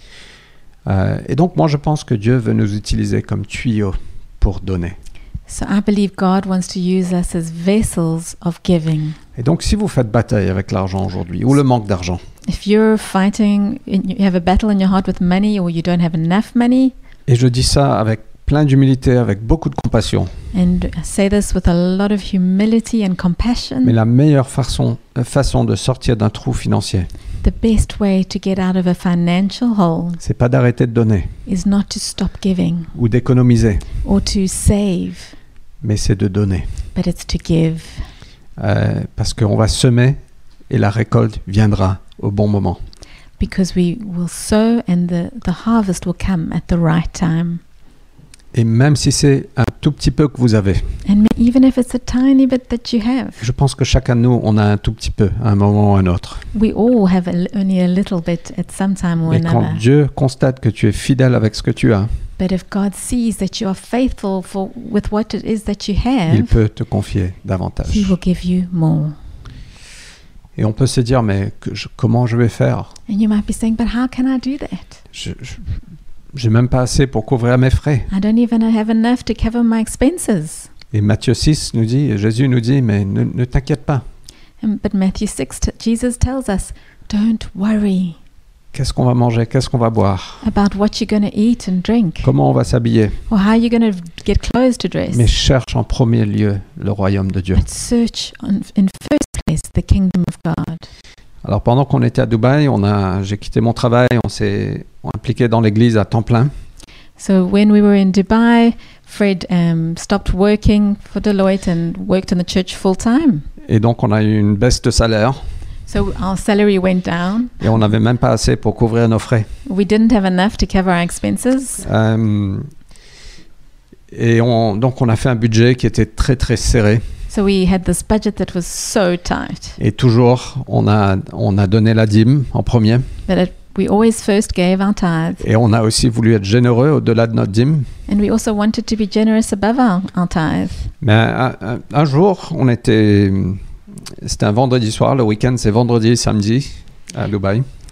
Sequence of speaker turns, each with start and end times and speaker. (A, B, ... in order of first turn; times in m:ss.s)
0:00.9-0:05.0 A
0:05.5-0:09.2 B
0:09.4-0:12.2 A
0:12.4-0:16.9 B
0:17.3-0:20.3 A
0:20.5-0:24.0 B
0:23.8-0:27.1 A
0:27.4-0:30.2 B
0:30.2-0:31.3 A
0:31.4-0:32.9 B
0:32.9-0:33.9 A
0:34.0-0:35.4 B
0:35.8-0:36.7 A
0:36.9-0:38.1 B
0:38.6-0:40.2 A
0:40.7-0:42.8 A
0:43.4-0:47.6 B
0:48.5-0:50.8 A
0:51.0-0:53.4 B
0:53.4-0:56.4 A
0:56.5-0:59.8 B
0:59.3-1:02.1 A
1:02.4-1:06.6 B
1:06.3-1:08.1 A
1:07.9-1:09.2 B
1:10.6-1:12.9 A
1:13.1-1:15.0 B
1:15.1-1:15.8 A
1:16.3-1:18.1 A
1:18.1-1:20.7 B
1:20.9-1:24.0 A
1:24.6-1:28.2 B
1:28.7-1:30.4 A
1:30.4-1:32.3 B
1:32.2-1:33.2 A
1:33.3-1:35.3 B
1:35.1-1:37.6 A
1:37.6-1:40.9 B
1:41.4-1:46.5 A
1:47.2-1:53.4 B
1:53.6-1:55.4 A
1:55.9-1:57.7 B
1:57.6-1:59.5 A
1:59.6-2:01.8 B
2:01.8-2:02.7 A
2:04.1-2:07.0 A
2:07.3-2:09.8 B
2:09.8-2:13.1 A
2:13.3-2:15.4 B
2:15.4-2:17.9 A
2:18.1-2:20.9 B
2:21.0-2:23.6 A
2:24.2-2:27.6 A